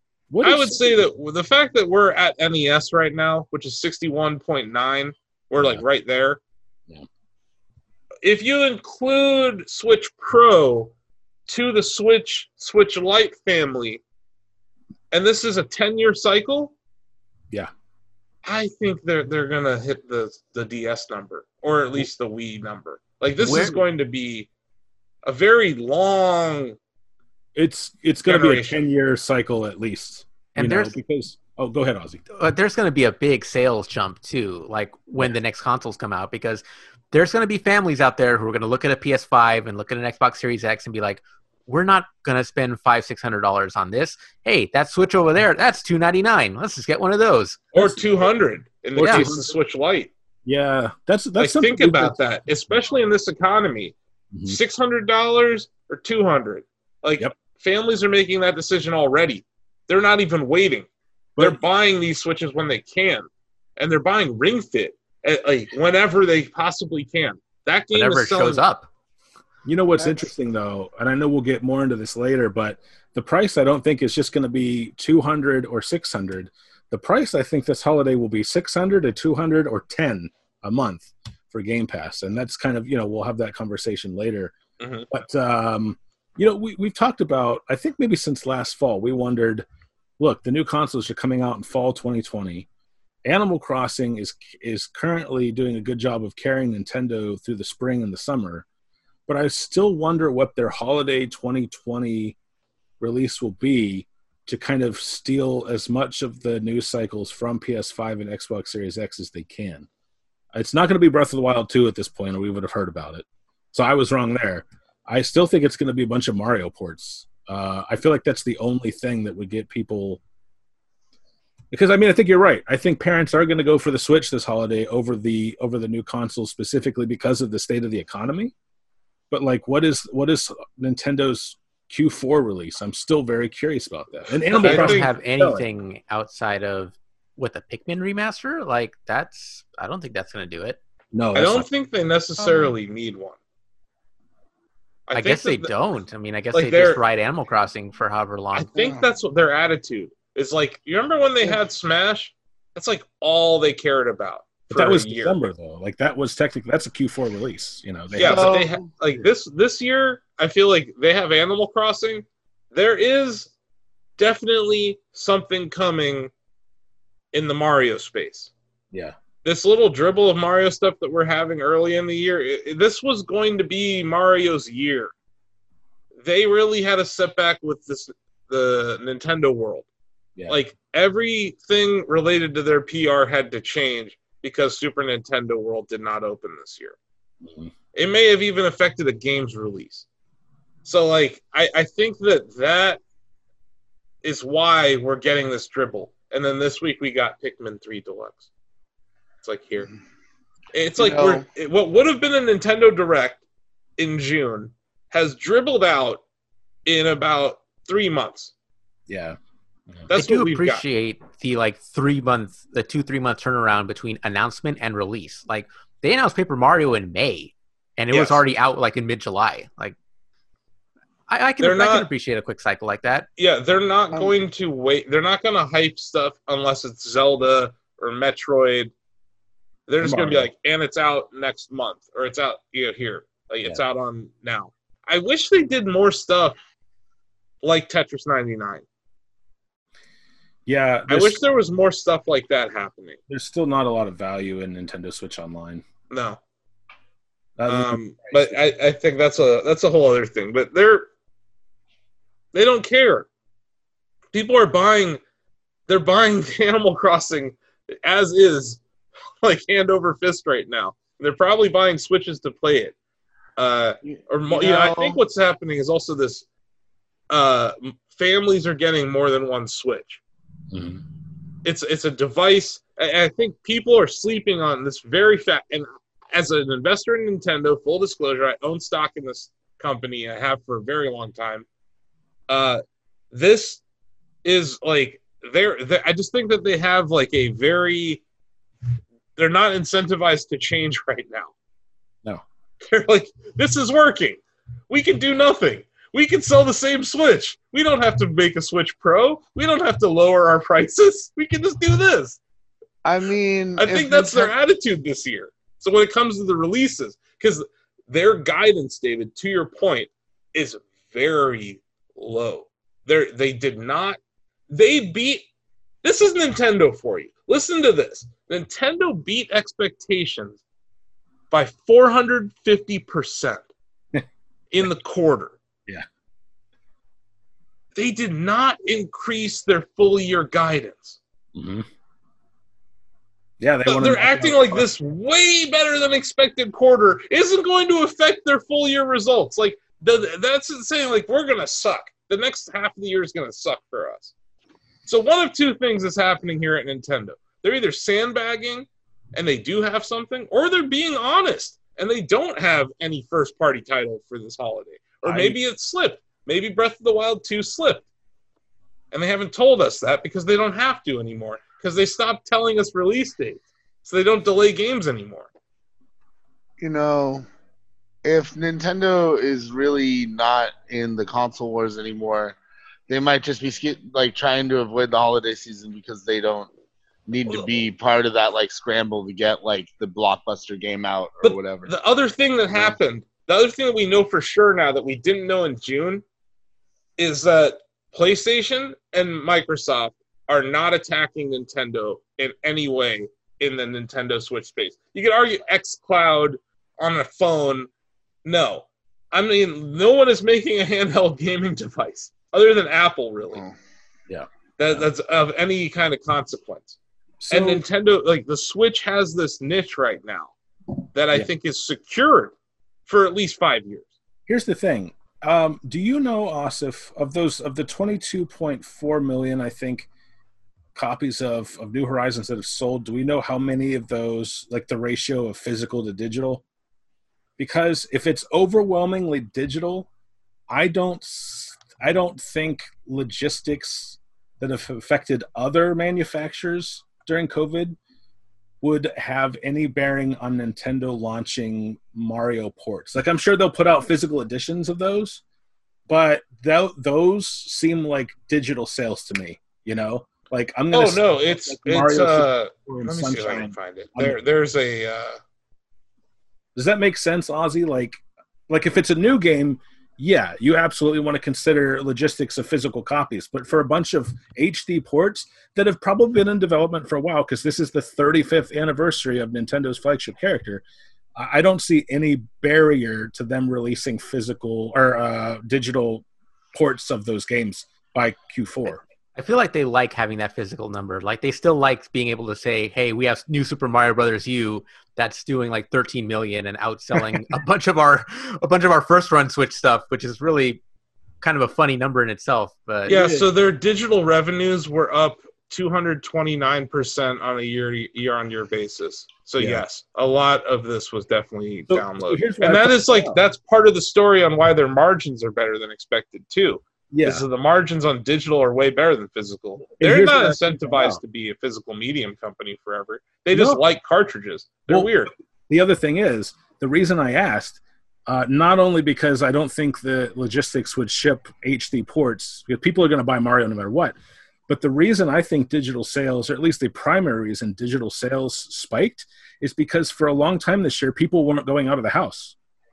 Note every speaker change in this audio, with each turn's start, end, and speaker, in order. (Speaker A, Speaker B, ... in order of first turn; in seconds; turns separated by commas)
Speaker A: 0.3-1.0, Speaker B: 0.4-6.4, Speaker A: 5.6-5.8, Speaker B: 8.2-10.9, Speaker B: 11.5-14.0, Speaker B: 15.1-16.7, Speaker B: 18.4-24.5, Speaker C: 23.4-23.8, Speaker A: 23.4-23.8, Speaker B: 25.2-26.8, Speaker A: 27.5-32.2, Speaker B: 28.2-28.8, Speaker C: 30.5-30.9, Speaker C: 32.4-47.7, Speaker B: 47.7-50.1, Speaker A: 47.8-48.0, Speaker A: 49.0-49.5, Speaker C: 49.0-49.3, Speaker A: 50.5-52.2, Speaker B: 51.4-53.9, Speaker A: 54.3-54.6, Speaker B: 54.5-60.9, Speaker B: 61.4-63.2, Speaker B: 63.8-68.6, Speaker C: 67.9-68.9, Speaker A: 69.6-84.5, Speaker B: 84.8-85.1, Speaker A: 85.1-89.6, Speaker A: 90.2-92.7, Speaker A: 93.2-98.6, Speaker A: 99.3-102.3, Speaker A: 103.0-109.9, Speaker A: 110.5-120.2, Speaker A: 121.7-128.5, Speaker A: 129.3-135.6, Speaker C: 134.5-140.8, Speaker B: 134.6-135.1, Speaker A: 141.1-141.7, Speaker B: 141.3-143.4, Speaker D: 142.4-142.8, Speaker B: 145.1-145.7, Speaker C: 145.1-148.7, Speaker B: 146.5-147.0, Speaker B: 148.5-155.4, Speaker D: 148.7-149.0, Speaker A: 154.7-158.6, Speaker B: 158.1-163.5, Speaker D: 158.2-158.9, Speaker B: 164.2-166.3, Speaker B: 167.3-168.5, Speaker B: 169.4-175.1, Speaker B: 176.2-179.9, Speaker B: 180.5-186.9, Speaker A: 187.4-187.7, Speaker B: 187.9-190.0, Speaker B: 190.8-193.0, Speaker B: 194.2-198.4, Speaker B: 199.4-199.9, Speaker B: 200.7-203.4, Speaker D: 201.0-201.4, Speaker B: 204.0-206.2, Speaker B: 206.8-208.5, Speaker A: 209.1-209.4, Speaker B: 210.1-210.8, Speaker C: 210.1-219.9, Speaker B: 218.1-218.4, Speaker C: 221.3-223.3, Speaker B: 221.6-222.1, Speaker B: 223.4-228.9, Speaker B: 229.9-236.6, Speaker A: 230.0-230.5, Speaker B: 237.6-238.8, Speaker A: 240.7-241.4, Speaker B: 241.1-243.2, Speaker A: 243.3-245.8, Speaker B: 246.1-246.4, Speaker A: 247.6-248.6, Speaker B: 247.7-251.1, Speaker B: 252.5-253.3, Speaker B: 254.3-255.2, Speaker B: 255.9-258.8, Speaker B: 259.4-262.9, Speaker B: 263.6-266.4, Speaker D: 264.1-265.2, Speaker B: 267.3-270.2, Speaker A: 270.7-271.0, Speaker B: 271.6-281.6, Speaker B: 282.5-283.8, Speaker B: 284.4-288.2, Speaker B: 289.4-291.5, Speaker B: 292.8-302.4, Speaker D: 303.0-304.5, Speaker B: 303.8-314.2, Speaker B: 314.7-315.4, Speaker B: 316.0-320.6, Speaker B: 321.5-323.6, Speaker B: 324.7-325.6, Speaker B: 327.9-331.2, Speaker A: 331.5-331.9, Speaker A: 333.6-334.9, Speaker B: 333.9-344.3, Speaker B: 345.1-358.0, Speaker A: 355.2-355.6, Speaker B: 359.1-365.5, Speaker D: 366.8-367.4, Speaker D: 368.2-372.6, Speaker D: 373.1-376.7, Speaker D: 377.3-381.9, Speaker B: 381.4-386.2, Speaker D: 382.7-382.9, Speaker B: 387.2-397.9, Speaker B: 398.4-403.6, Speaker A: 404.3-405.1, Speaker B: 404.8-407.0, Speaker A: 407.4-407.8, Speaker B: 407.5-410.5, Speaker B: 411.1-412.5, Speaker B: 413.1-414.1, Speaker A: 414.5-420.1, Speaker A: 420.9-426.6, Speaker A: 427.6-430.1, Speaker A: 430.7-438.0, Speaker A: 438.8-445.4, Speaker A: 446.1-454.4, Speaker B: 450.9-455.4, Speaker A: 456.7-470.8, Speaker A: 471.4-479.0, Speaker C: 479.4-490.8, Speaker C: 491.4-493.2, Speaker A: 493.1-493.5, Speaker B: 493.1-515.3, Speaker A: 499.6-499.8, Speaker A: 501.9-503.4, Speaker A: 507.1-507.4, Speaker A: 510.0-511.2, Speaker A: 513.5-513.8, Speaker A: 514.9-524.2, Speaker A: 524.7-532.5